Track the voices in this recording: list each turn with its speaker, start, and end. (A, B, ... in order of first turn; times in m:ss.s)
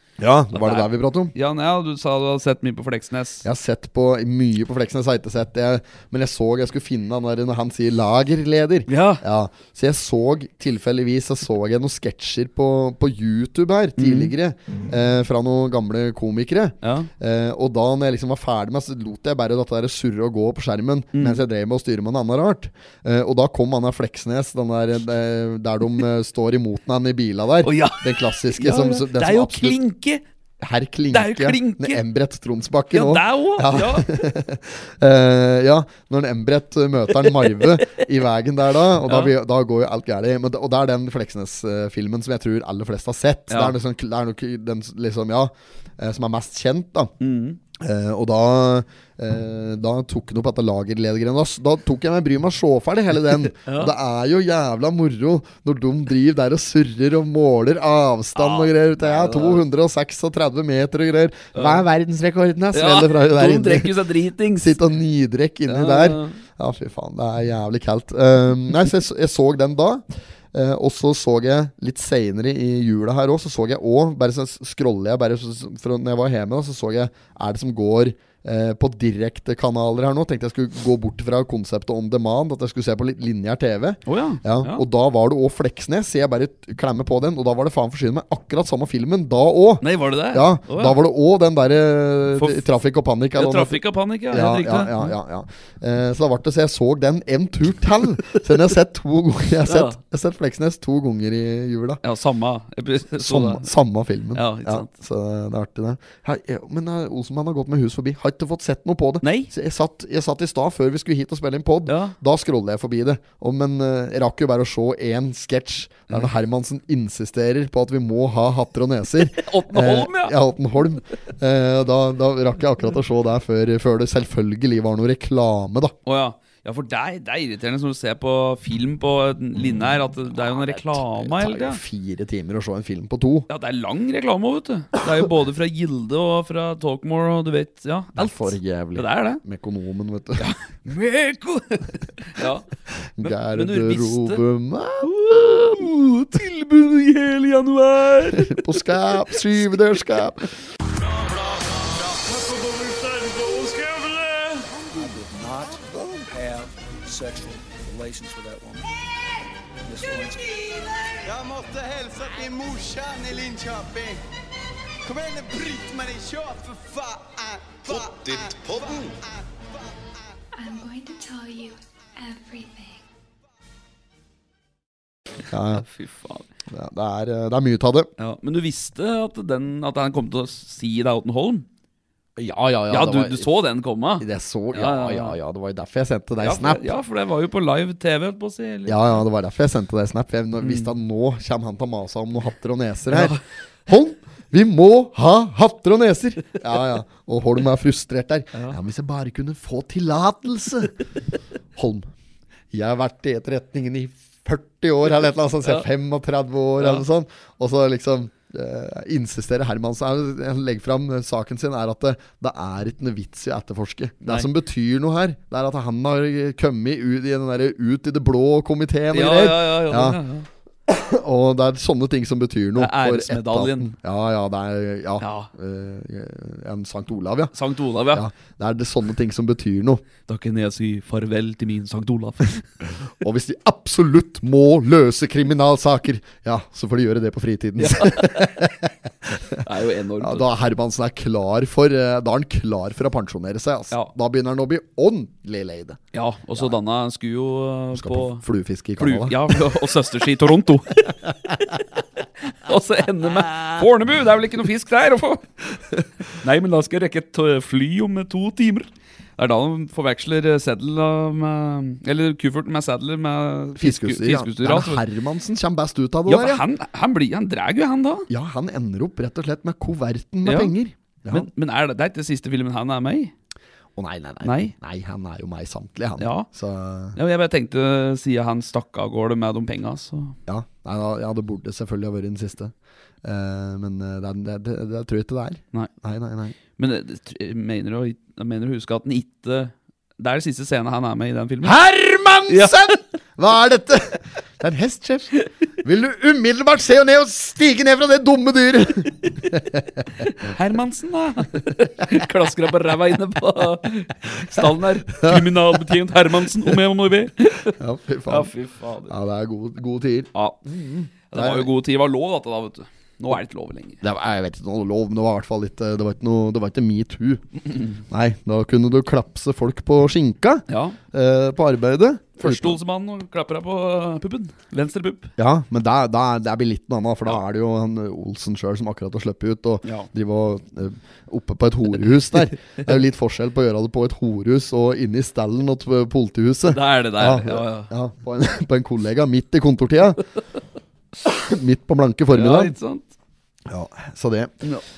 0:00.2-0:01.3 A
0:00.5-0:03.4 B
0:03.4-0:29.8 A
0:08.9-0:09.2 B
0:14.0-0:14.3 B
0:16.8-0:17.1 B
0:21.1-0:21.4 B
0:27.6-0:30.2 B
0:30.6-0:47.1 A
0:31.1-0:32.0 B
0:32.9-0:34.1 B
0:37.3-0:37.8 B
0:39.0-0:39.3 B
0:43.5-0:43.8 B
0:47.2-0:47.6 B
0:47.8-1:03.9 A
0:53.3-0:53.9 B
0:58.4-0:59.6 B
1:01.5-1:01.8 B
1:02.7-1:04.8 B
1:04.5-1:33.8 A
1:05.7-1:06.4 B
1:24.1-1:24.8 B
1:29.8-1:31.0 B
1:32.4-1:32.6 B
1:33.4-1:35.1 B
1:34.3-1:42.0 A
1:39.6-1:40.0 B
1:42.0-1:43.7 B
1:43.2-2:05.9 A
1:44.3-1:44.9 B
1:49.2-1:49.5 B
1:51.9-1:52.2 B
1:59.2-2:00.4 B
2:06.0-2:11.8 B
2:10.3-2:13.5 A
2:13.5-2:19.4 B
2:18.2-2:20.5 A
2:20.4-2:22.7 B
2:23.0-2:25.8 A
2:23.2-2:24.4 B
2:25.0-2:30.2 B
2:28.3-2:30.5 A
2:30.9-2:38.9 C
2:34.7-2:36.3 A
2:39.8-2:41.2 C
2:41.2-2:44.2 D
2:45.0-2:50.0 D
2:50.6-2:53.0 E
2:55.4-2:55.8 A
2:55.7-2:56.5 B
2:56.7-2:58.1 A
2:58.2-3:01.7 B
3:02.4-3:03.5 A
3:02.9-3:05.4 B
3:04.2-3:06.9 A
3:06.4-3:09.2 B
3:08.9-3:21.0 A
3:10.6-3:10.9 B
3:13.1-3:13.4 B
3:18.5-3:18.8 B
3:21.7-3:22.1 A
3:22.7-3:40.2 A
3:26.8-3:27.0 B
3:34.2-3:34.5 B
3:39.1-3:40.5 B
3:40.9-3:47.5 A
3:42.8-3:43.9 B
3:45.2-3:45.5 B
3:47.5-3:48.2 B
3:48.1-3:50.0 A
3:50.3-3:52.6 B
3:53.0-3:59.6 A
3:57.8-3:58.6 B
3:59.5-4:00.5 B
4:00.2-4:06.0 A
4:06.1-4:08.4 B
4:07.9-4:09.6 A
4:09.0-4:15.6 B
4:16.3-4:25.0 B
4:23.8-4:26.6 A
4:26.2-4:28.3 B
4:28.3-4:31.5 A
4:30.4-4:30.7 B
4:31.3-4:33.3 B
4:34.0-4:37.2 A
4:34.4-4:34.7 B
4:36.2-4:36.5 B
4:37.1-4:40.4 B
4:40.5-4:46.6 A
4:46.8-4:51.8 B
4:51.6-5:00.0 A
4:52.5-4:53.0 B
5:00.2-5:09.1 B
5:05.1-5:05.5 A
5:07.8-5:08.5 A
5:09.1-5:11.7 A
5:10.3-5:10.6 B
5:11.3-5:14.0 B
5:14.0-5:17.4 A
5:18.1-5:22.8 A
5:20.7-5:21.0 B
5:22.4-5:25.3 B
5:25.4-5:40.2 A
5:29.8-5:30.1 B
5:36.7-5:37.9 B
5:41.2-5:42.7 A
5:42.3-5:43.1 B
5:43.7-5:44.5 A